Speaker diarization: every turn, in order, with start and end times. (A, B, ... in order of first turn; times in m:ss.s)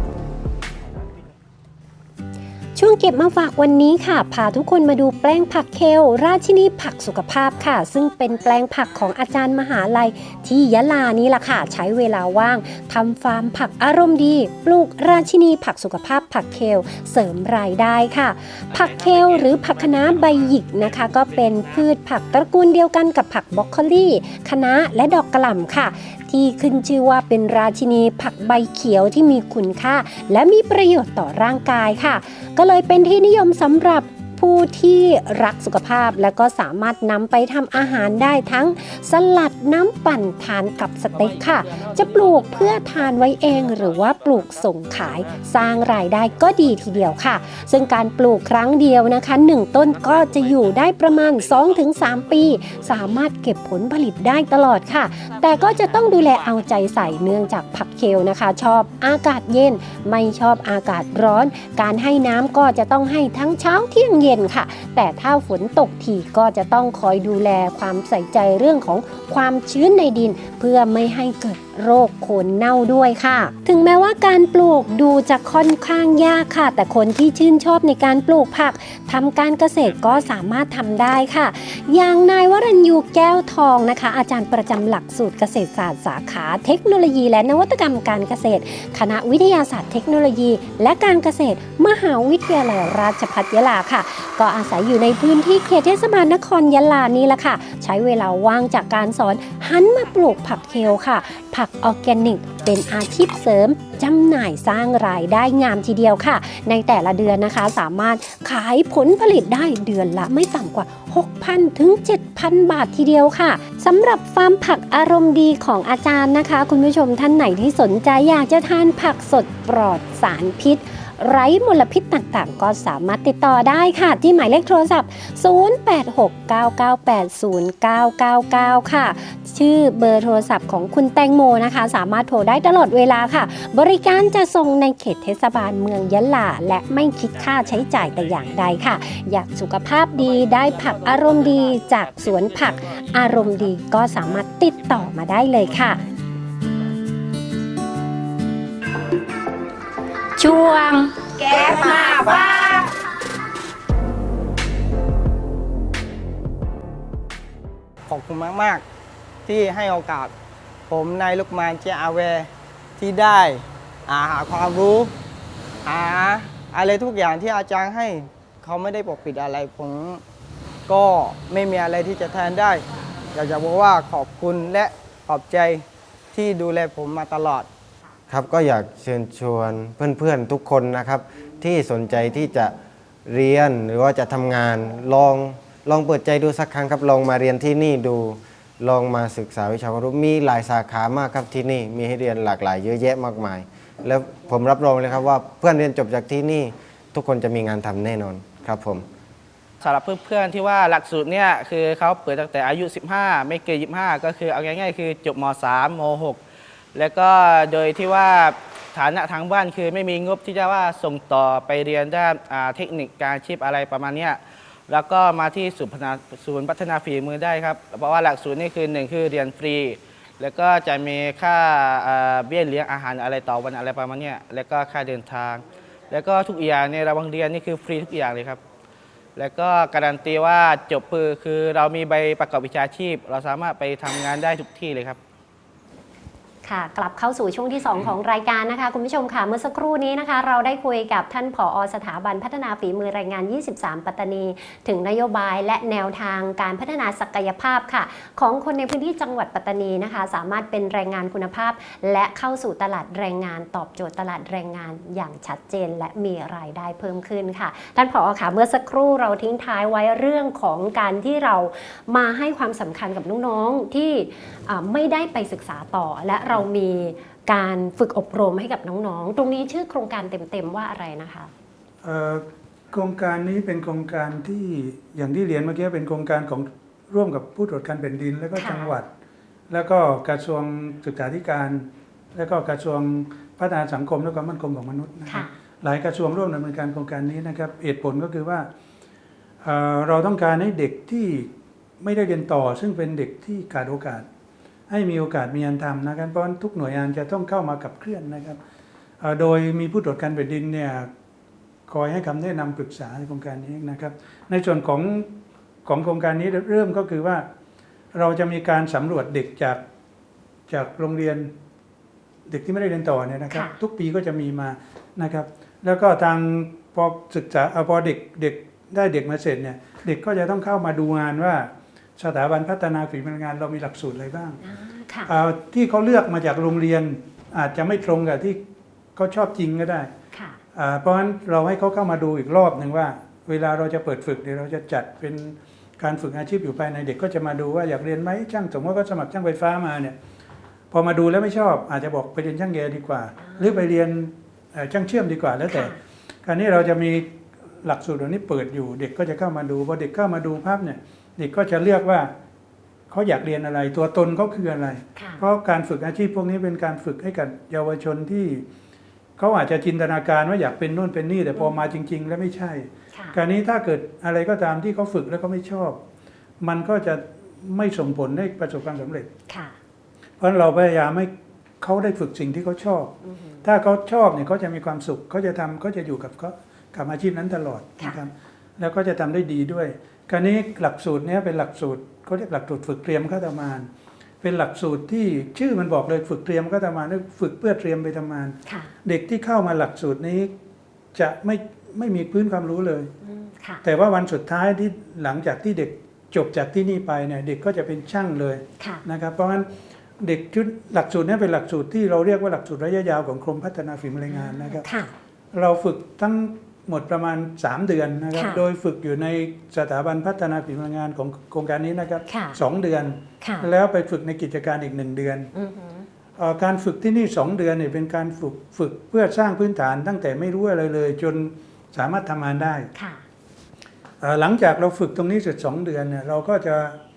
0:02.8-2:26.0 A
2:30.4-2:32.9 B
2:38.1-2:38.8 C
2:39.4-2:40.3 C
2:40.9-2:45.1 C
2:45.8-2:50.2 C
2:50.9-2:57.7 C
2:58.3-3:02.7 D
3:03.2-3:19.0 D
3:19.8-3:26.4 E
3:26.9-3:48.6 E
3:49.4-3:55.2 E
3:56.6-4:31.5 A
4:32.0-4:39.1 F
4:38.6-4:39.0 A
4:39.7-4:48.7 F
4:49.6-4:54.3 F
4:54.9-4:58.6 F
4:59.2-5:01.1 F
5:01.9-5:05.3 F
5:05.8-5:07.4 F
5:08.1-5:09.8 F
5:10.7-5:11.5 F
5:12.5-5:24.6 F
5:13.5-5:13.8 A
5:24.6-5:25.3 A
5:25.2-5:28.6 F
5:29.2-5:30.1 F
5:30.3-5:30.6 A
5:30.7-5:40.2 F
5:40.9-5:45.9 F
5:45.7-5:46.0 A
5:46.4-5:52.3 F
5:53.1-5:58.6 F
5:55.2-5:55.4 A
5:59.4-6:06.0 F
6:06.6-6:09.3 F
6:09.5-6:09.7 A
6:10.4-6:23.9 F
6:24.4-6:30.5 F
6:28.6-6:28.9 A
6:31.1-6:33.1 F
6:33.2-6:33.8 A
6:33.8-6:44.9 F
6:38.8-6:39.0 A
6:44.3-6:45.1 A
6:45.5-6:55.5 F
6:48.3-6:48.6 A
6:52.3-6:52.6 A
6:53.4-6:53.7 A
6:55.5-6:56.0 A
6:56.4-7:02.9 F
7:02.9-7:03.2 A
7:04.2-7:07.0 F